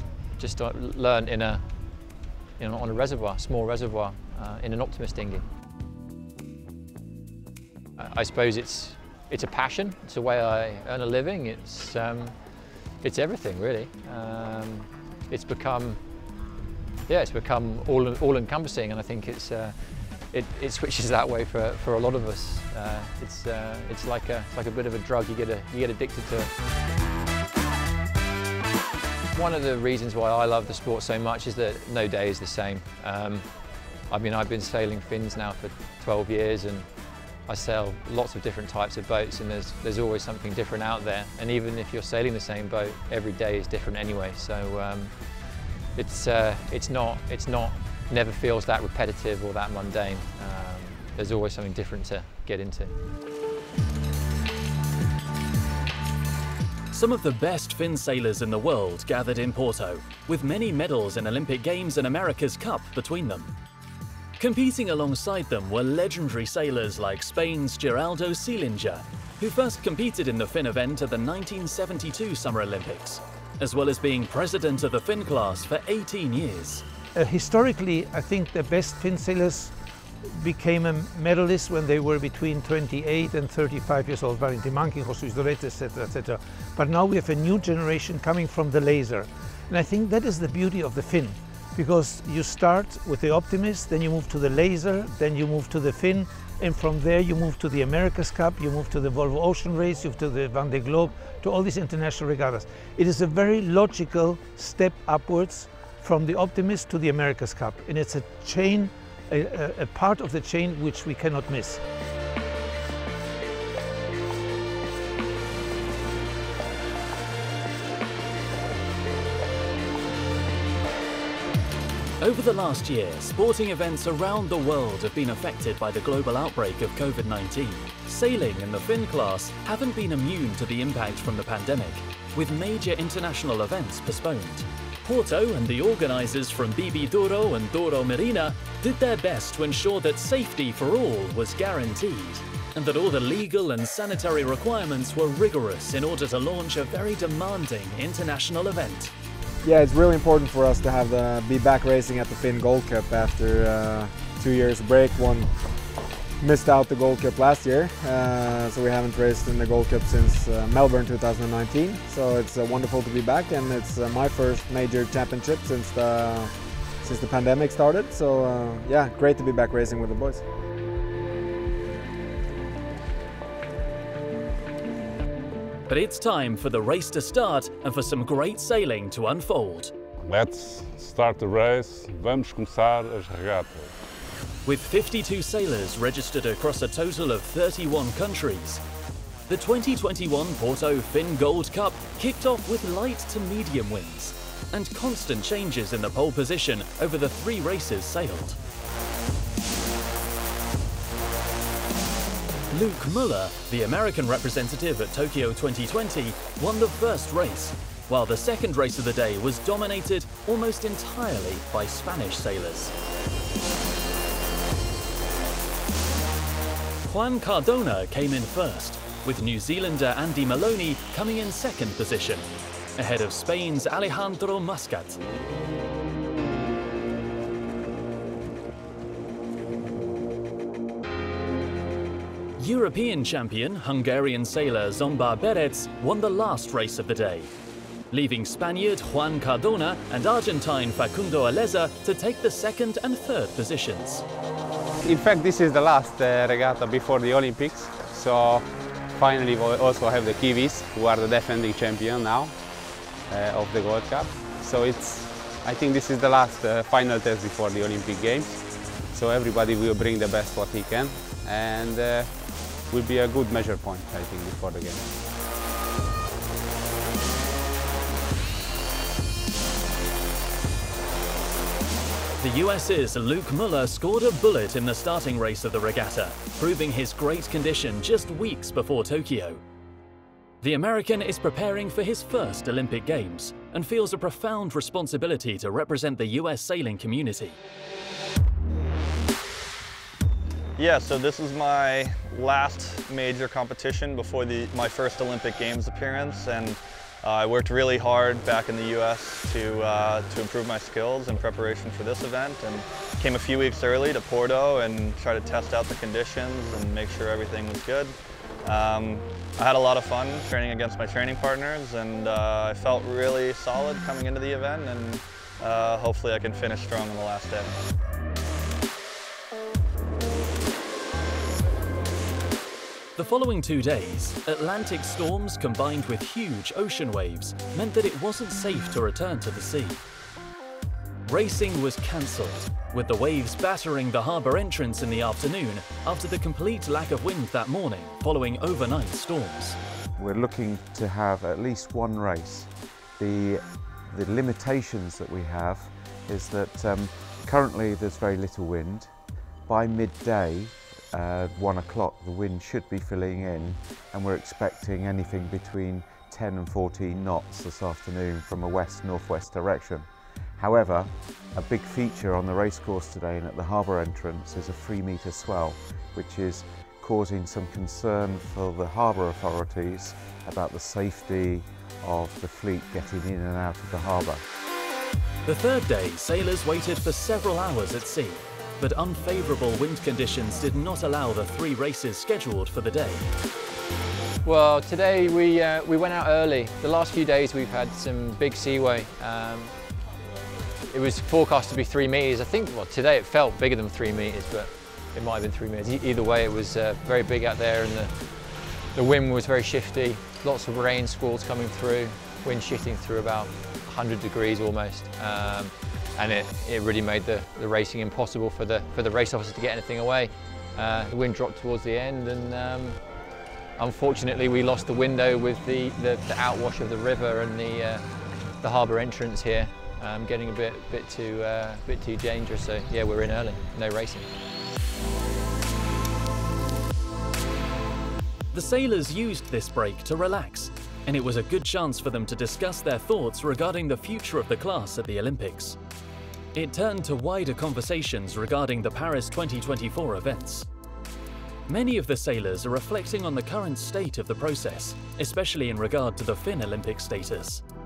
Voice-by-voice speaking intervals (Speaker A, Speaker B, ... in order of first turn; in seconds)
Speaker A: 0.4-1.6, 2.6-5.5, 8.0-12.4, 13.0-16.0, 17.1-26.5, 29.3-33.5, 34.1-36.9, 37.5-45.1, 45.9-52.9, 384.4-389.8, 390.9-398.2, 398.9-413.0, 413.8-418.0, 418.6-424.3
Speaker B: 56.9-63.5, 64.4-76.8, 122.2-149.1, 175.9-179.9, 184.7-188.8, 189.5-198.6, 202.7-212.9, 217.0-225.2, 232.6-237.5, 238.1-244.2, 272.4-279.6, 280.6-287.6, 323.2-330.0, 331.3-339.8, 375.4-383.3, 428.5-435.8, 436.5-440.7, 441.7-447.6
Speaker C: 77.2-79.8, 80.3-111.8
Speaker D: 149.6-155.6, 156.4-170.4
Speaker E: 180.2-183.9
Speaker F: 245.0-252.6, 253.3-265.1
Speaker G: 290.8-317.8
Speaker H: 340.2-349.1, 349.6-374.4